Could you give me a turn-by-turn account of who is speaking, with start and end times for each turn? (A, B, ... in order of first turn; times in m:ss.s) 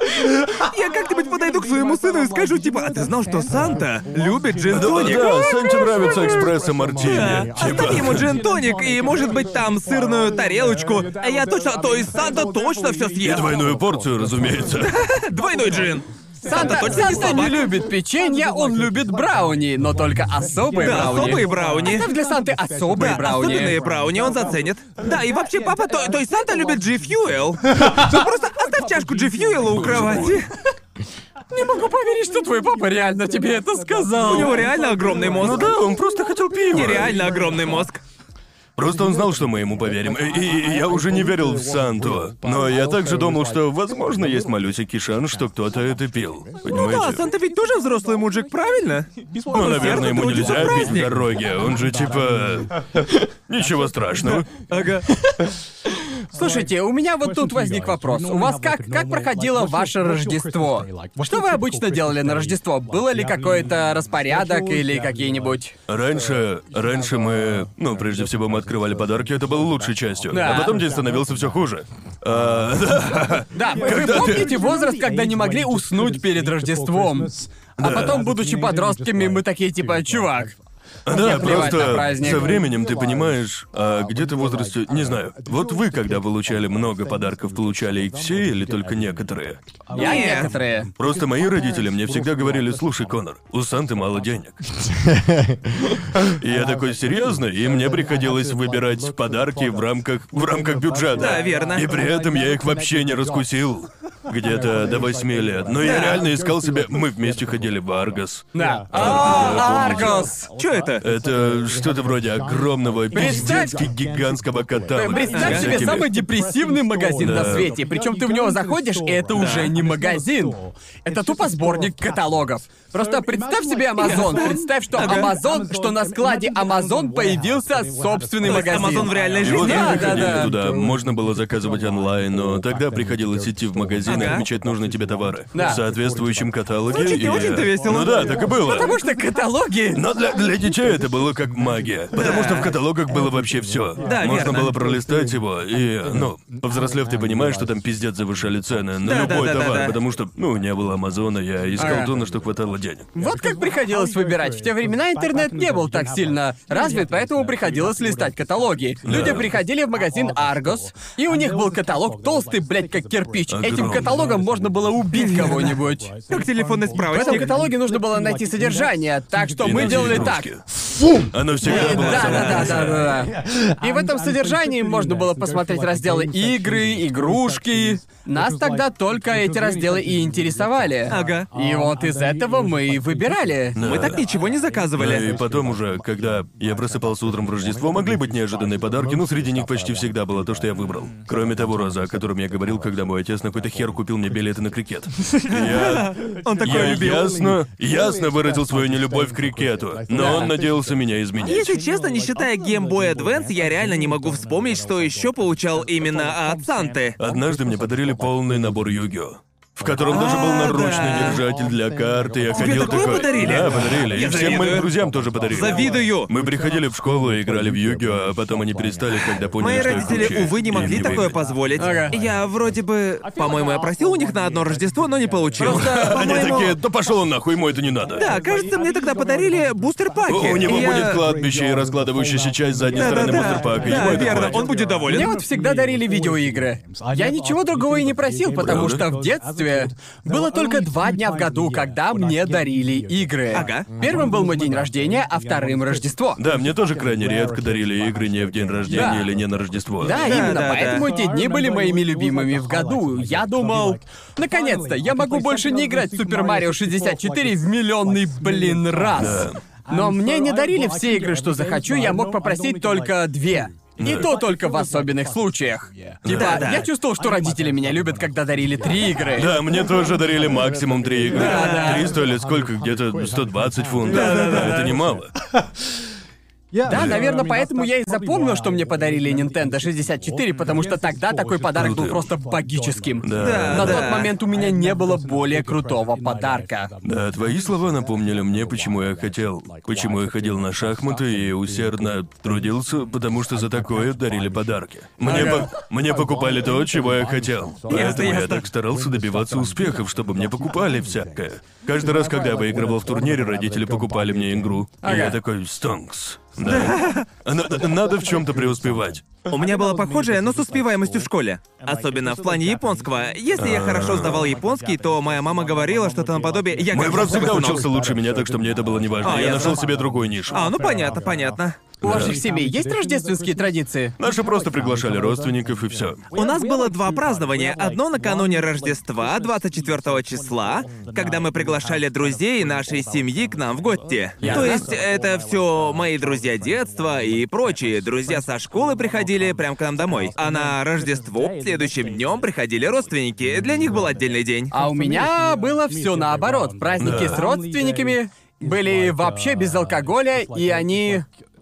0:00.6-0:06.2 A
0:04.7-0:08.4 B
0:05.2-0:06.4 C
0:07.0-0:13.5 A
0:13.2-0:15.0 B
0:14.8-0:17.7 A
0:16.4-0:23.8 C
0:20.7-0:22.1 A
0:22.9-0:30.5 A
0:29.6-0:30.4 B
0:31.5-0:34.7 C
0:34.1-0:35.7 A
0:35.3-0:37.2 B
0:36.7-0:38.0 A
0:38.8-0:47.3 B
0:46.6-0:51.2 A
0:49.5-0:54.5 B
0:54.7-0:55.2 A
0:56.3-1:05.7 C
1:05.9-1:14.6 B
1:10.3-1:10.8 C
1:13.5-1:22.6 C
1:17.8-1:18.2 B
1:21.0-1:29.7 B
1:29.9-1:30.9 C
1:29.9-1:30.5 A
1:31.0-1:34.6 B
1:35.8-1:50.3 B
1:41.2-1:41.9 A
1:45.8-1:46.2 A
1:48.5-1:50.5 C
1:48.9-1:51.0 A
1:51.0-1:56.2 B
1:53.1-1:53.8 C
1:54.9-2:10.6 C
1:55.3-1:55.9 A
1:57.2-1:57.8 B
1:59.3-1:59.7 A
2:04.0-2:05.3 A
2:08.4-2:10.4 A
2:09.4-2:19.0 B
2:14.0-2:14.4 A
2:15.5-2:15.8 C
2:16.9-2:18.6 A
2:18.4-2:20.0 C
2:19.9-2:33.1 B
2:22.1-2:22.7 A
2:24.0-2:24.8 A
2:29.0-2:30.0 A
2:31.8-2:32.1 C
2:33.1-2:46.1 C
2:39.0-2:39.5 B
2:43.5-2:44.3 B
2:45.3-2:45.7 A
2:46.3-2:47.6 A
2:47.0-2:50.5 C
2:49.6-2:50.6 B
2:51.3-2:53.1 B
2:51.6-2:53.1 A
2:51.6-3:03.8 C
3:01.1-3:01.5 A
3:03.8-3:04.2 B
3:03.8-3:05.4 A
3:05.0-3:21.8 B
3:15.4-3:17.4 A
3:20.1-3:20.5 C
3:21.4-3:27.2 A
3:27.2-3:41.3 B
3:30.1-3:31.4 A
3:32.5-3:34.9 A
3:35.5-3:36.3 A
3:39.6-3:46.7 A
3:41.8-3:42.2 C
3:45.6-3:46.6 C
3:45.6-3:48.3 B
3:48.1-3:51.2 A
3:50.3-3:54.7 B
3:52.9-3:55.4 A
3:55.1-4:06.4 C
3:58.6-3:59.0 B
4:03.5-4:03.9 A
4:06.4-4:10.3 B
4:08.9-4:09.3 C
4:10.0-4:29.5 C
4:10.1-4:11.1 A
4:19.2-4:19.6 B
4:24.0-4:24.3 B
4:26.2-4:26.7 B
4:26.3-4:26.9 A
4:29.3-4:35.3 B
4:31.3-4:32.1 C
4:31.4-4:31.7 A
4:34.1-4:34.9 A
4:36.8-4:46.9 C
4:36.9-4:37.2 B
4:41.7-4:42.3 B
4:43.2-4:44.2 B
4:43.4-4:44.3 A
4:47.0-5:09.2 B
4:55.2-4:55.7 C
4:57.9-4:58.6 A
5:05.0-5:05.4 C
5:06.6-5:07.3 A
5:09.5-5:17.9 A
5:13.6-5:14.5 B
5:16.9-5:20.7 B
5:19.2-5:19.8 A
5:20.5-5:21.9 A
5:22.0-5:24.2 C
5:22.0-5:22.4 B
5:24.2-5:26.2 B
5:26.3-5:44.7 A
5:34.4-5:34.9 C
5:34.4-5:34.8 B
5:44.7-5:51.3 C
5:47.0-5:47.4 B